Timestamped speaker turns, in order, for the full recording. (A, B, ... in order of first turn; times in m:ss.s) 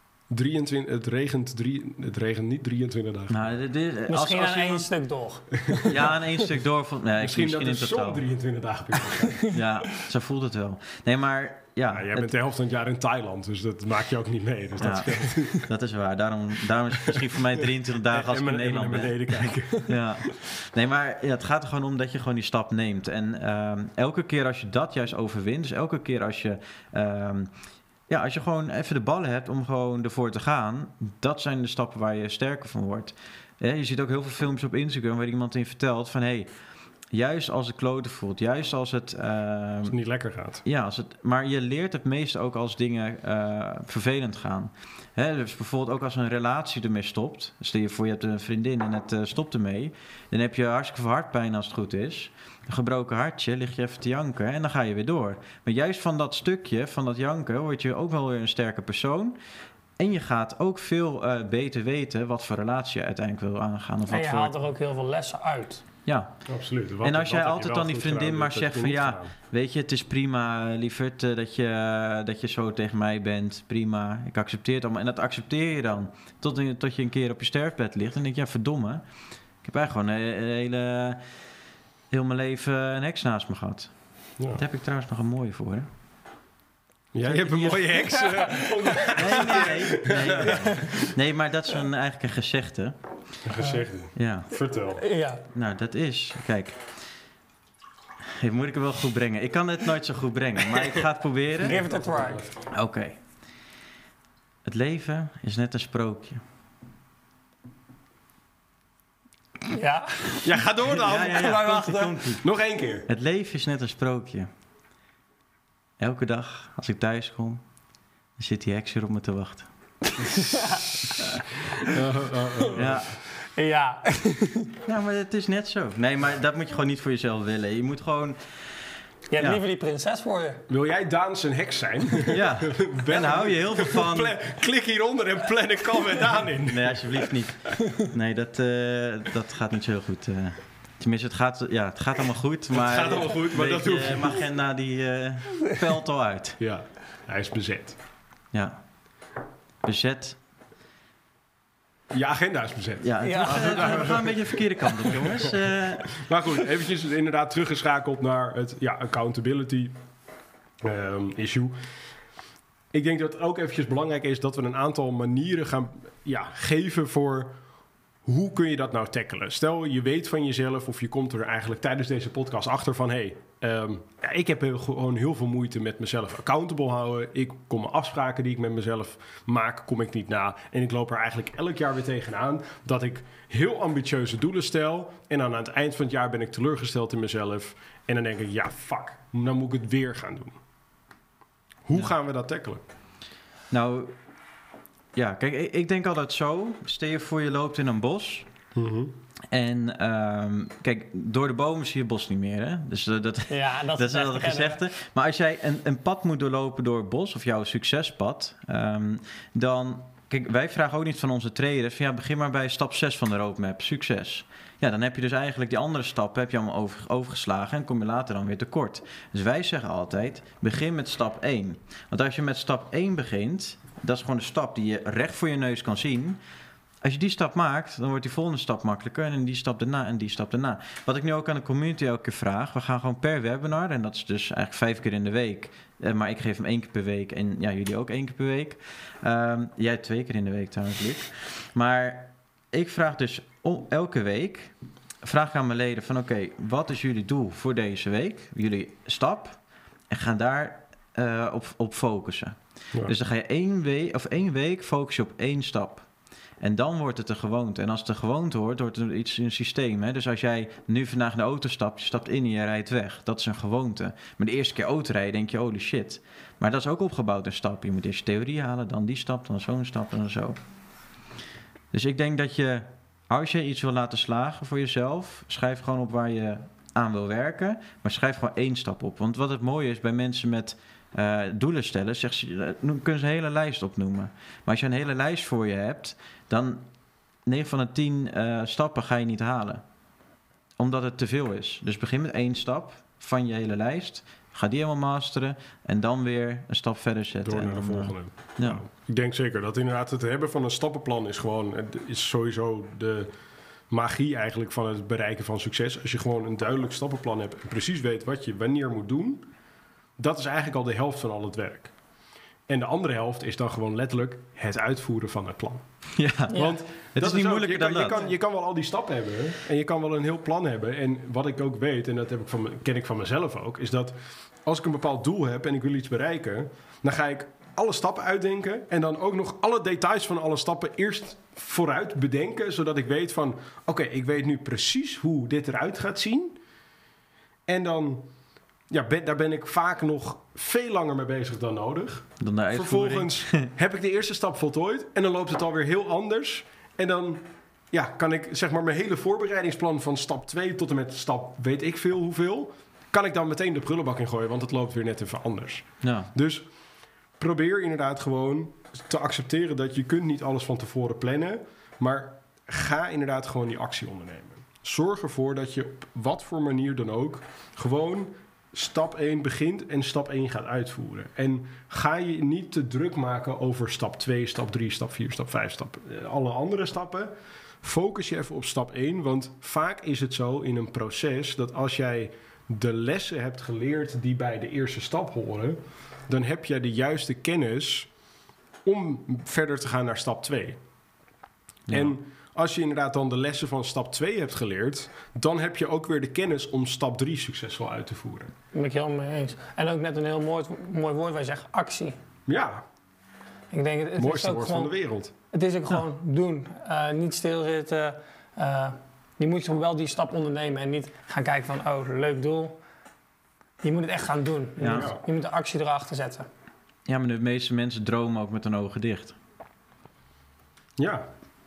0:00.3-0:03.5 A
0:03.3-0:04.9 B
0:04.1-0:06.1 C
0:05.6-0:05.9 A
0:05.8-0:08.2 B
0:07.2-0:09.5 A
0:09.5-0:12.3 B
0:11.9-0:15.7 A
0:14.8-0:27.5 B
0:17.0-0:20.2 A
0:28.1-0:36.5 B
0:37.1-0:39.9 B
0:39.9-0:40.6 A
0:40.6-0:59.4 B
1:00.0-1:04.5 B
1:04.1-1:05.8 C
1:06.0-1:06.3 B
1:06.5-1:09.3 A
1:07.0-1:19.0 B
1:19.6-1:21.2 B
1:22.1-1:23.9 B
1:24.5-1:25.9 B
1:27.1-1:31.0 A
1:27.2-1:27.8 B
1:28.1-1:29.1 C
1:29.1-1:32.9 B
1:33.4-1:35.0 A
1:34.2-1:34.5 B
1:35.0-1:35.4 C
1:35.5-1:36.8 B
1:38.4-1:41.8 B
1:41.6-1:42.4 C
1:41.6-1:42.5 A
1:42.7-1:43.2 B
1:44.6-1:46.4 B
1:49.7-1:50.5 C
1:50.4-1:51.5 A
1:51.0-1:52.4 B
1:51.1-1:52.2 C
1:52.4-1:53.1 A
1:53.1-1:54.5 B
1:56.0-1:57.6 B
1:58.4-1:59.7 B
2:00.2-2:01.1 C
2:01.2-2:01.4 B
2:01.9-2:03.0 A
2:02.7-2:03.2 B
2:03.4-2:04.7 C
2:04.8-2:08.4 B
2:09.3-2:10.6 C
2:10.7-2:17.3 A
2:12.3-2:14.4 B
2:16.7-2:26.6 B
2:22.7-2:24.5 A
2:26.6-2:28.0 A
2:28.5-2:28.8 B
2:29.8-2:30.4 B
2:32.1-2:34.4 A
2:33.0-2:36.2 B
2:33.2-2:34.2 C
2:35.0-2:39.9 A
2:40.8-2:41.8 A
2:42.9-2:47.6 A
2:48.2-3:10.6 A
3:11.8-3:12.8 A
3:13.7-3:14.1 B
3:15.1-3:18.5 B
3:18.7-3:19.1 A
3:19.5-3:46.4 B
3:23.5-3:24.8 C
3:47.0-4:16.1 B
4:16.6-4:30.6 B
4:31.9-4:46.8 B
4:47.4-4:49.8 B
4:50.8-4:58.8 B
4:57.4-5:03.3 A
5:03.9-5:09.5 A
5:10.2-5:11.9 A
5:12.7-5:15.8 A
5:16.2-5:18.3 B
5:16.5-5:36.6 A
5:16.5-5:16.8 C
5:37.7-5:38.3 A
5:38.9-5:56.6 A
5:42.4-5:43.7 B
5:56.0-5:56.3 B
5:57.4-6:28.1 A
6:28.8-6:30.8 A
6:31.9-6:32.1 B
6:31.9-6:38.5 A
6:38.7-6:42.2 C
6:42.5-6:42.8 A
6:43.7-6:44.9 C
6:44.2-6:45.3 A
6:45.5-6:52.8 C
6:53.8-6:56.5 C
6:54.8-6:55.1 B
6:54.9-6:55.2 A
6:57.1-6:59.4 B
7:01.0-7:01.3 A